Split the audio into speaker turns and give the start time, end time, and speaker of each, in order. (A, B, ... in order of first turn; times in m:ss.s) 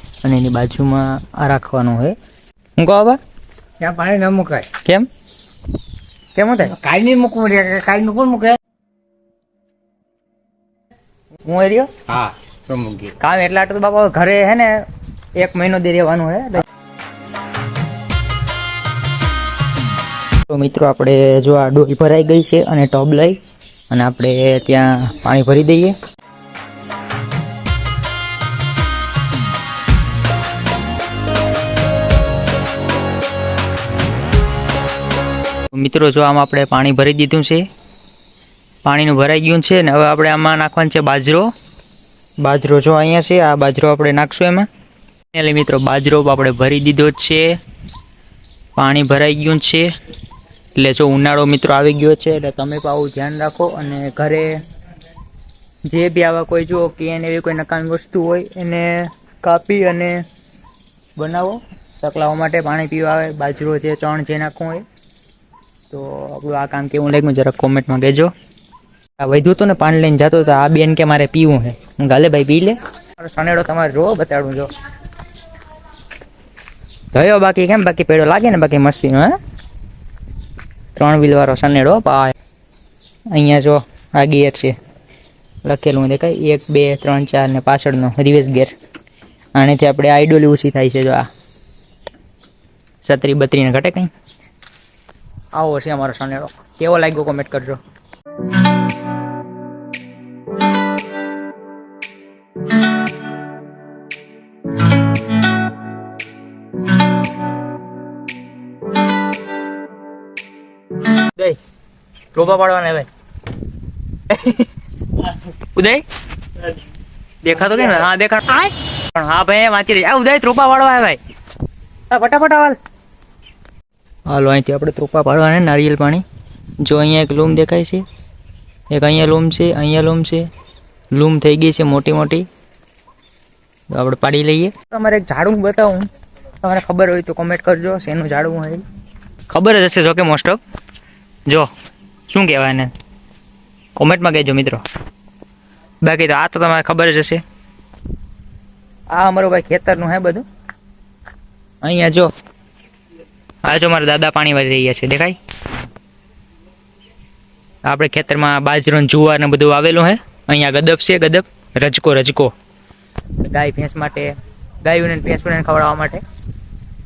0:00.2-0:02.2 A
0:02.8-0:03.2 A
0:03.8-0:04.7 B
0:06.4-0:06.8 A
0:06.6-0:08.6 B
0:11.4-0:11.9 A
0:12.1-0:13.1 B
0:13.2-0:14.8 A
0:15.4-0:16.7 A
0:20.5-0:23.4 A
0:23.9-0:25.9 A
0:35.7-0:37.6 A
0:38.8-0:41.5 A
0:42.4-0:44.7 A
0:45.3-0:47.6 A
0:48.8-0:49.9 A
0:50.8-0:54.5 A
0:55.9-1:00.2 A
1:01.2-1:04.8 A
1:05.9-1:08.3 A
1:09.2-1:14.7 A
1:17.1-1:19.4 A
1:20.9-1:22.3 A
1:23.3-1:24.7 A
1:25.6-1:28.7 A
1:29.5-1:31.3 A
1:33.0-1:34.1 A
1:35.6-1:37.8 A
1:51.2-1:51.6 A
1:52.3-1:53.1 A
1:54.3-1:56.0 A
1:57.4-2:01.2 A
2:02.1-2:02.8 A
2:04.3-2:06.2 A
2:06.8-2:08.0 A
2:08.9-2:10.5 A
2:11.1-2:12.5 A
2:13.9-2:16.1 A
2:16.6-2:18.8 A
2:19.5-2:20.6 A
2:22.3-2:22.9 A
2:24.0-2:24.8 A
2:26.0-2:27.4 A
2:29.1-2:30.4 A
2:31.8-2:32.3 A
2:33.6-2:35.4 A
2:37.8-2:42.5 A
2:43.4-2:46.2 A